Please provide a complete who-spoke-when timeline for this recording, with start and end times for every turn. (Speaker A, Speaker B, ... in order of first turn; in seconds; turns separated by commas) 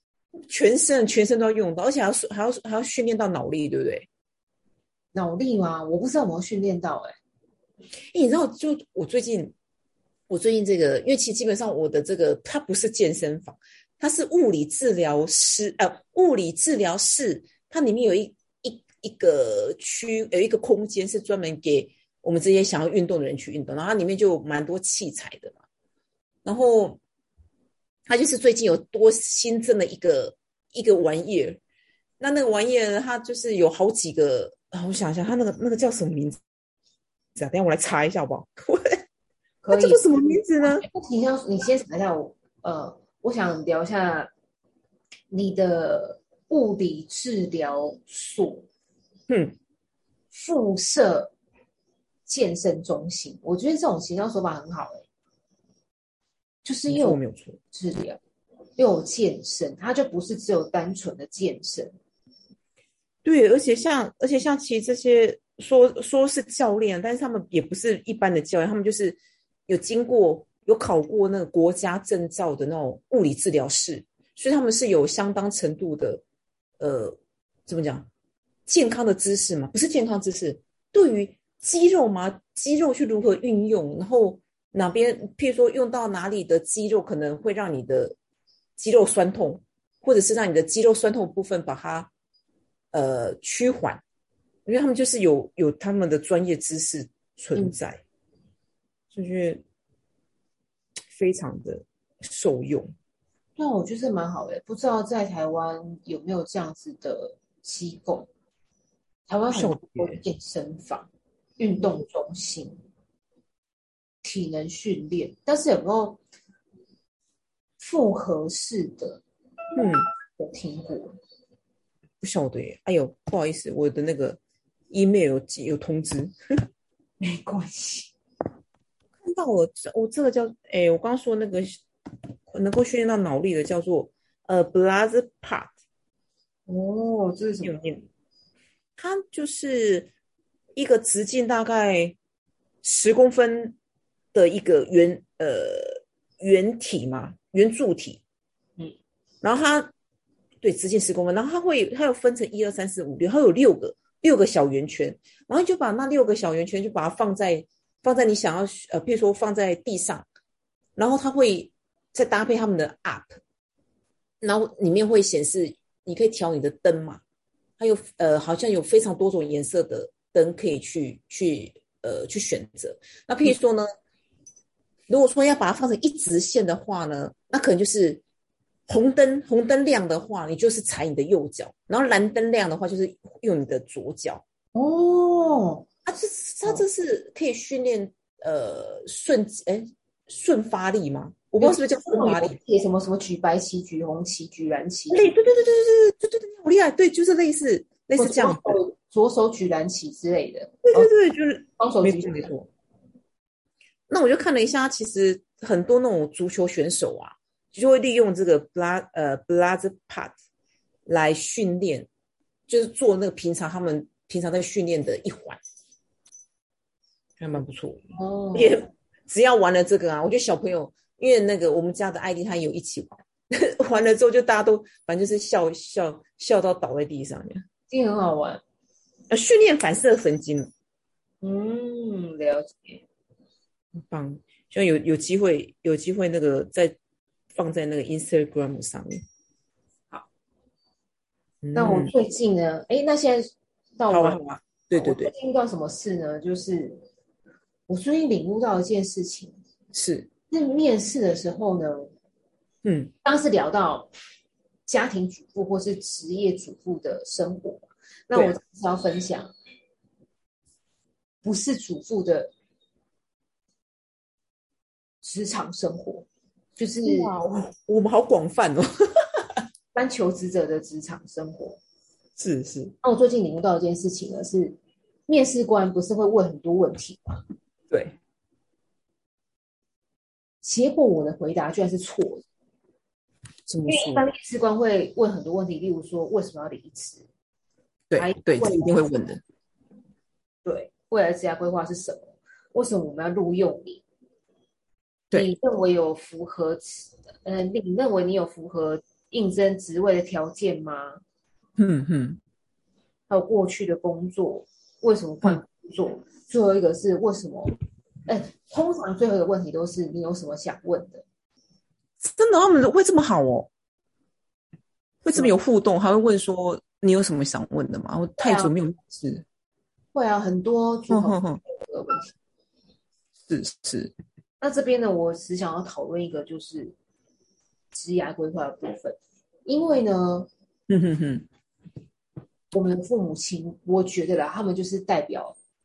Speaker A: 0.5-4.1, Speaker B: 5.1-7.2, Speaker A: 8.1-9.5, Speaker A: 10.3-25.6, Speaker A: 26.4-27.0, Speaker A: 28.1-31.6, Speaker A: 32.2-36.4, Speaker A: 37.4-39.0, Speaker B: 39.6-40.1, Speaker A: 39.7-40.9, Speaker B: 40.6-44.3, Speaker B: 45.3-48.6, Speaker A: 49.3-49.5, Speaker B: 50.3-51.3, Speaker B: 52.3-55.0, Speaker B: 56.6-57.2, Speaker A: 56.9-57.6, Speaker B: 57.7-58.2, Speaker B: 58.8-61.9, Speaker A: 63.2-76.2, Speaker A: 76.8-78.1, Speaker A: 78.7-88.2, Speaker A: 88.8-92.1, Speaker A: 92.9-94.0, Speaker A: 94.7-98.0, Speaker A: 99.1-99.6, Speaker A: 101.1-102.9, Speaker B: 103.6-108.3, Speaker B: 109.3-112.8, Speaker A: 109.5-110.2, Speaker B: 114.2-116.2, Speaker B: 117.8-119.2, Speaker A: 119.8-120.1, Speaker B: 120.4-121.2, Speaker A: 122.2-124.4, Speaker A: 124.9-126.3, Speaker B: 127.2-128.1, Speaker A: 129.2-131.8, Speaker A: 132.5-135.7, Speaker B: 136.7-137.7, Speaker A: 137.6-138.1, Speaker A: 139.0-140.1, Speaker A: 140.8-142.2, Speaker A: 142.8-143.8, Speaker A: 144.3-148.2, Speaker A: 149.4-149.9, Speaker A: 150.6-160.2, Speaker A: 160.9-163.4, Speaker A: 164.4-167.2, Speaker A: 167.8-173.9, Speaker A: 175.1-178.2, Speaker A: 178.9-184.4, Speaker B: 184.7-185.9, Speaker A: 186.1-192.6, Speaker B: 191.6-195.3, Speaker A: 195.1-198.8, Speaker B: 198.2-201.1, Speaker A: 200.8-202.7, Speaker B: 201.8-202.5, Speaker A: 204.1-210.3, Speaker A: 211.1-212.1, Speaker A: 212.7-215.6, Speaker A: 217.4-218.0, Speaker B: 218.1-218.8, Speaker A: 218.5-227.6, Speaker B: 227.9-228.6, Speaker A: 229.3-230.7, Speaker B: 231.4-233.0, Speaker A: 233.9-237.0, Speaker A: 237.6-239.2, Speaker A: 241.6-242.1, Speaker B: 241.7-244.4, Speaker A: 244.1-245.3, Speaker B: 244.9-247.0, Speaker B: 247.9-249.6, Speaker A: 249.9-250.3, Speaker B: 250.5-252.1, Speaker A: 252.8-253.1, Speaker B: 253.2-254.1, Speaker B: 254.9-259.5, Speaker B: 261.4-262.5, Speaker B: 265.2-267.3, Speaker A: 267.0-268.9, Speaker B: 269.9-271.8, Speaker A: 272.4-272.9, Speaker B: 273.0-274.8, Speaker B: 275.3-277.4, Speaker A: 277.9-278.1, Speaker B: 280.6-282.4, Speaker A: 283.7-284.2, Speaker B: 283.9-287.2, Speaker A: 288.1-289.4, Speaker B: 288.1-289.2, Speaker B: 290.6-294.0, Speaker B: 295.3-301.2, Speaker A: 301.8-302.4, Speaker B: 303.3-311.2, Speaker A: 312.2-313.7, Speaker A: 315.2-319.4, Speaker B: 318.4-318.7, Speaker B: 320.1-322.3, Speaker A: 321.1-321.6, Speaker A: 323.5-324.1, Speaker B: 324.6-326.9, Speaker B: 327.9-330.5, Speaker A: 330.9-331.5, Speaker B: 332.7-335.6